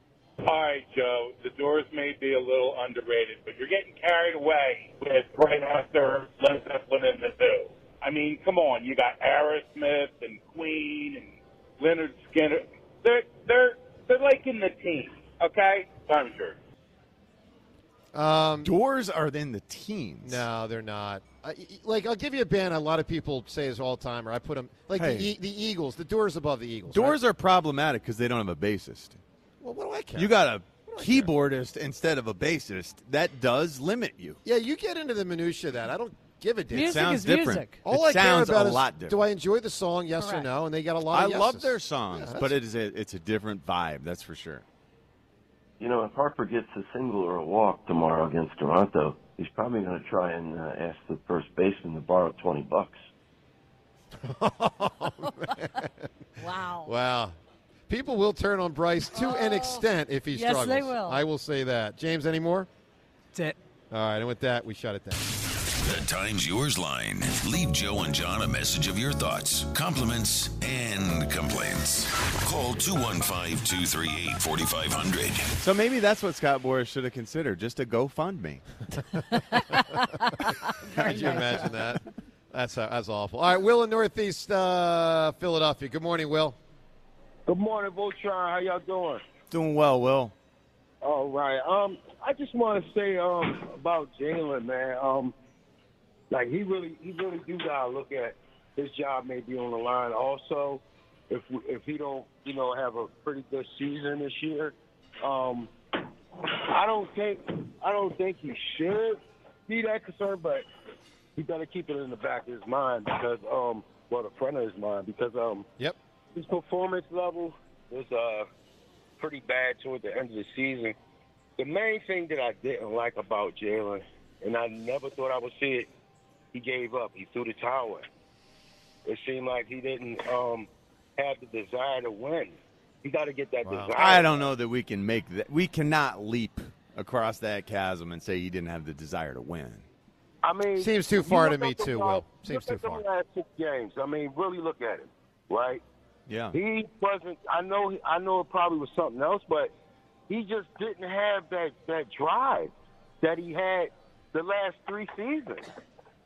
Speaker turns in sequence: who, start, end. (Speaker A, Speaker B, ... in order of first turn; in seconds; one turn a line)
Speaker A: 0.4-16.6
Speaker B: 18.1-18.7
Speaker C: 18.6-20.4
Speaker B: 20.2-27.2
Speaker C: 24.9-25.3
Speaker C: 26.9-29.2
Speaker B: 29.6-31.3
Speaker C: 30.1-34.4
Speaker B: 34.4-37.2
Speaker D: 36.7-37.8
Speaker C: 36.8-39.2
Speaker B: 37.8-42.6
Speaker D: 40.2-40.5
Speaker C: 41.1-44.6
Speaker E: 45.8-53.0
Speaker B: 54.2-56.1
Speaker D: 56.4-56.9
Speaker B: 56.8-57.3
Speaker B: 57.9-62.7
Speaker D: 59.1-61.2
Speaker B: 63.9-65.2
Speaker F: 65.8-75.5
Speaker C: 75.6-78.6
Speaker B: 79.7-79.9
Speaker B: 80.8-86.6
Speaker D: 80.8-81.9
Speaker G: 87.5-89.2
Speaker C: 89.5-90.3
Speaker G: 91.0-95.3
Speaker G: 96.3-105.7
Speaker G: 106.4-110.6
Speaker G: 111.3-115.7
Speaker G: 116.3-118.5
Speaker G: 119.2-121.0
Speaker G: 121.6-125.9
Speaker G: 126.5-128.0
Speaker G: 129.1-134.4
Speaker B: 133.6-133.9
Speaker C: 134.0-139.8
Speaker G: 140.4-145.8
Speaker B: 140.8-143.0
Speaker C: 146.3-146.6
Speaker G: 146.5-149.7
Speaker G: 150.3-155.7